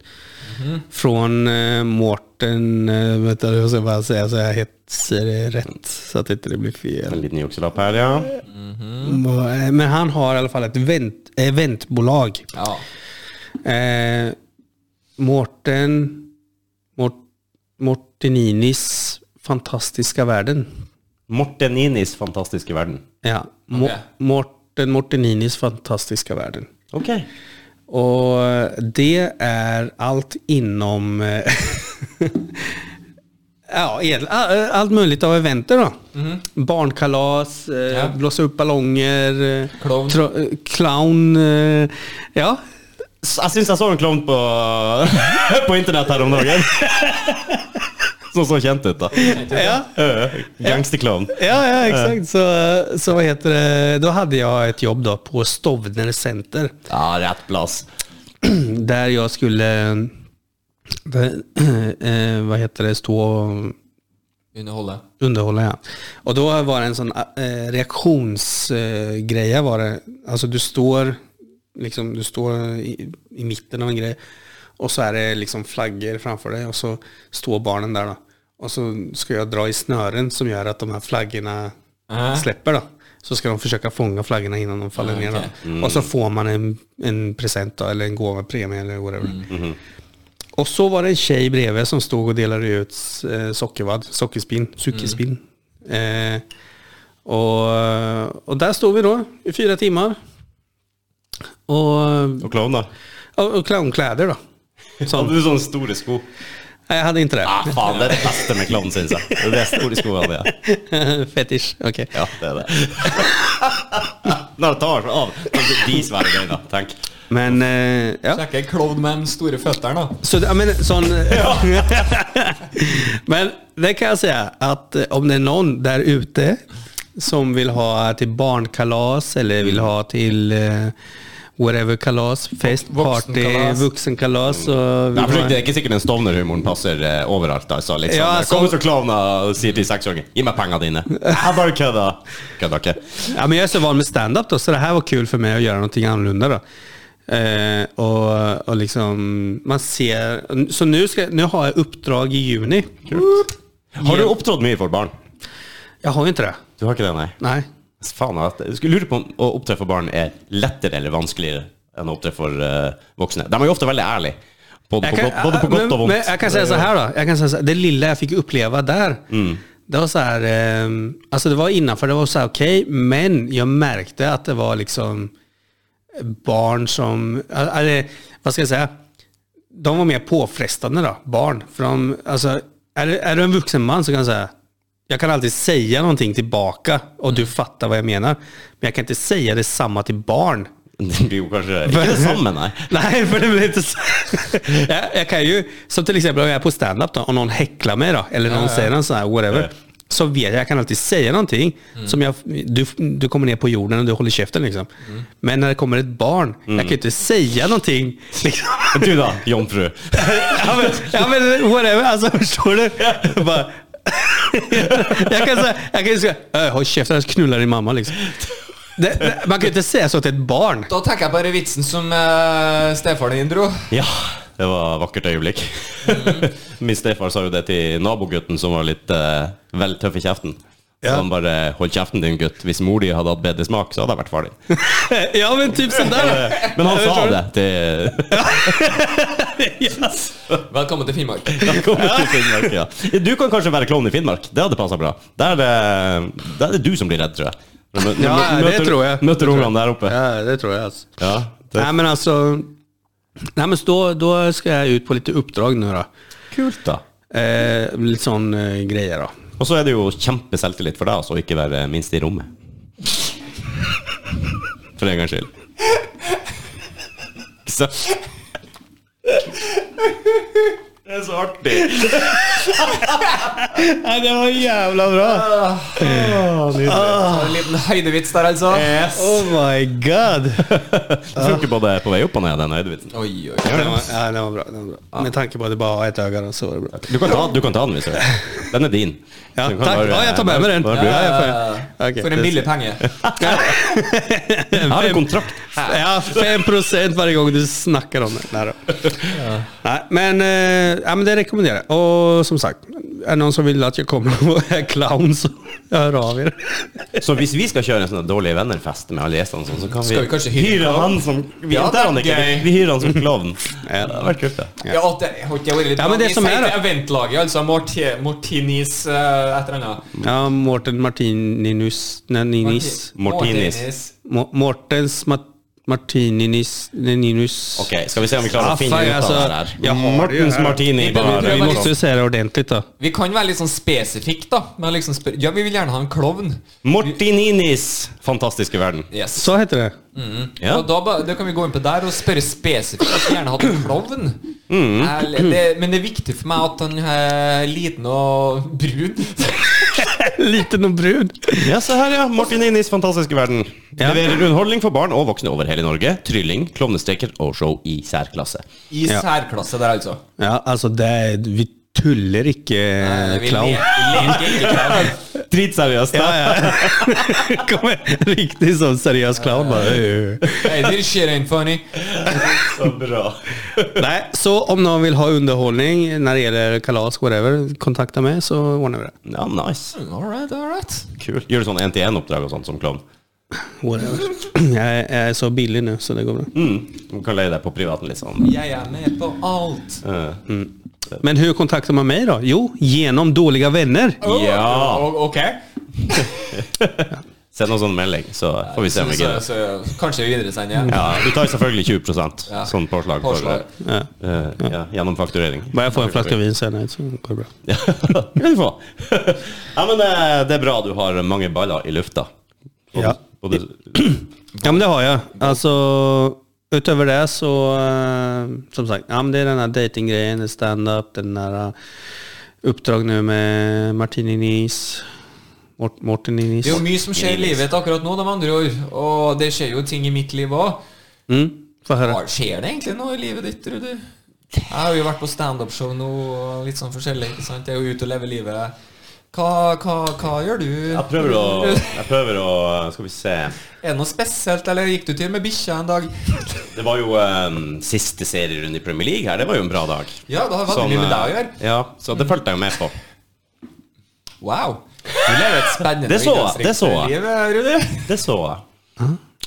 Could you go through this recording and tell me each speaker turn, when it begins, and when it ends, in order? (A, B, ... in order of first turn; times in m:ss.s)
0:00.5-0:00.8 A
0:00.9-0:07.2 B
0:07.1-0:08.4 C
0:08.5-0:09.2 A
0:09.0-0:12.5 B
0:12.5-0:12.8 A
0:13.6-0:14.4 B
0:15.2-0:16.3 B
0:17.8-0:20.7 B
0:21.3-0:23.0 C
0:23.2-0:26.7 B
0:23.7-0:24.0 A
0:26.9-0:27.3 C
0:27.9-0:32.8 B
0:33.7-0:42.6 B
0:36.1-0:36.4 A
0:37.9-0:38.2 A
0:39.8-0:40.2 A
0:43.2-0:47.4 C
0:46.8-0:47.6 B
0:48.3-0:49.4 C
0:49.2-0:49.8 A
0:49.2-0:49.9 B
0:49.9-0:52.2 C
0:50.6-0:56.7 B
0:56.9-0:57.9 C
0:58.4-1:00.1 B
1:01.1-1:03.8 B
1:04.6-1:05.0 A
1:05.2-1:11.2 B
1:11.8-1:14.2 B
1:14.8-1:21.7 B
1:22.1-1:22.5 A
1:22.3-1:29.5 B
1:25.0-1:25.5 A
1:25.6-1:26.1 C
1:29.5-1:29.8 C
1:30.6-1:36.4 B
1:37.2-1:40.2 B
1:41.7-1:42.5 B
1:42.4-1:42.9 C
1:43.4-1:44.4 B
1:45.0-1:46.2 C
1:45.0-1:45.4 B
1:46.9-1:48.5 B
1:47.4-1:50.5 C
1:49.3-1:52.2 B
1:52.1-1:57.0 C
1:53.0-1:53.6 B
1:57.3-1:58.4 B
1:58.3-2:00.2 A
2:00.2-2:06.6 B
2:01.3-2:01.7 C
2:07.2-2:11.0 B
2:11.6-2:15.6 B
2:12.6-2:13.9 A
2:15.1-2:23.3 C
2:18.1-2:18.8 B
2:23.2-2:26.6 B
2:27.3-2:33.4 B
2:33.1-2:35.1 C
2:34.0-2:34.3 B
2:36.0-2:36.6 B
2:36.8-2:37.4 C
2:37.4-2:37.7 B
2:38.0-2:44.4 C
2:44.9-2:46.9 C
2:45.0-2:49.3 B
2:49.3-2:49.6 C
2:49.9-2:55.3 B
2:56.2-2:58.9 B
2:59.7-3:04.5 B
3:05.1-3:10.7 B
3:11.0-3:12.9 C
3:11.9-3:24.9 B
3:18.5-3:18.9 A
3:25.4-3:29.3 B
3:26.7-3:27.0 C
3:28.9-3:31.2 C
3:30.1-3:38.3 B
3:33.0-3:33.4 C
3:34.9-3:35.4 C
3:39.0-3:40.9 B
3:40.9-3:43.9 A
3:43.9-3:54.6 C
3:46.0-3:46.5 A
3:54.7-3:57.4 B
3:55.9-3:58.9 C
3:58.3-4:00.3 B
4:00.7-4:01.8 A
4:01.6-4:10.2 C
4:01.8-4:02.7 B
4:08.1-4:11.2 B
4:11.2-4:11.9 C
4:11.8-4:12.7 B
4:13.6-4:16.1 B
4:16.5-4:17.0 C
4:17.3-4:19.3 B
4:19.6-4:22.5 C
4:25.0-4:25.5 C
4:27.6-4:28.1 C
4:31.1-4:33.2 C
4:31.9-4:37.6 B
4:35.2-4:37.4 C
4:35.6-4:36.2 A
4:36.9-4:39.2 A
4:38.7-4:39.5 C
4:39.1-4:40.8 B
4:40.6-4:43.1 C
4:41.4-4:41.6 B
4:43.1-4:44.0 A
4:43.7-4:47.5 B
4:43.7-4:44.0 C
4:47.0-4:51.5 C
4:49.6-4:52.6 B
4:50.9-4:53.1 A
4:53.0-4:53.7 C
4:53.4-5:07.2 B
4:54.8-4:56.6 C
4:59.3-4:59.7 A
5:07.2-5:14.7 C
5:10.0-5:12.7 A
5:13.8-5:15.0 B
5:14.8-5:20.1 A
5:16.0-5:16.8 B
5:20.2-5:23.1 B
5:22.6-5:24.1 A
5:23.2-5:23.8 C
5:24.2-5:27.9 B
5:27.8-5:31.9 C
5:28.5-5:32.9 B
5:31.0-5:31.9 A
5:33.0-5:37.2 A
5:36.8-5:39.1 C
5:39.1-5:39.5 A
5:39.4-5:40.0 B
5:40.1-5:44.4 A
5:44.7-5:45.3 C
5:45.0-5:50.0 A
5:50.0-5:51.8 B
5:51.6-5:58.6 C
5:54.0-5:54.3 B
5:58.9-6:00.2 A
6:00.4-6:04.6 B
6:03.0-6:05.2 A
6:04.2-6:07.6 C
6:06.1-6:10.9 B
6:09.4-6:10.0 A
6:10.5-6:11.9 A
6:12.0-6:14.1 C
6:14.0-6:19.2 B
6:19.3-6:20.0 C
6:19.9-6:21.1 A
6:21.2-6:23.0 C
6:23.8-6:26.5 B
6:26.5-6:28.5 C
6:28.4-6:30.0 A
6:30.0-6:30.4 C
6:30.5-6:34.2 B
6:34.2-6:35.1 C
6:34.2-6:36.6 A
6:36.6-6:39.4 C
6:38.6-6:41.3 A
6:40.9-6:43.6 C
6:42.5-6:43.7 A
6:43.8-6:44.1 B
6:44.2-6:46.4 C
6:45.7-6:47.5 B
6:47.7-6:52.3 C
6:52.9-6:54.1 C
6:54.0-7:01.8 B
6:54.6-6:54.8 A
7:02.6-7:05.1 B
7:05.8-7:06.8 B
7:06.6-7:10.8 A
7:06.7-7:07.6 C
7:11.3-7:12.2 B
7:12.0-7:14.1 A
7:14.7-7:18.7 A
7:19.3-7:22.0 A
7:20.9-7:23.6 C
7:23.7-7:26.7 A
7:26.7-7:33.0 C
7:30.3-7:31.6 A
7:34.4-7:38.1 A
7:35.8-7:37.1 C
7:38.1-7:38.6 C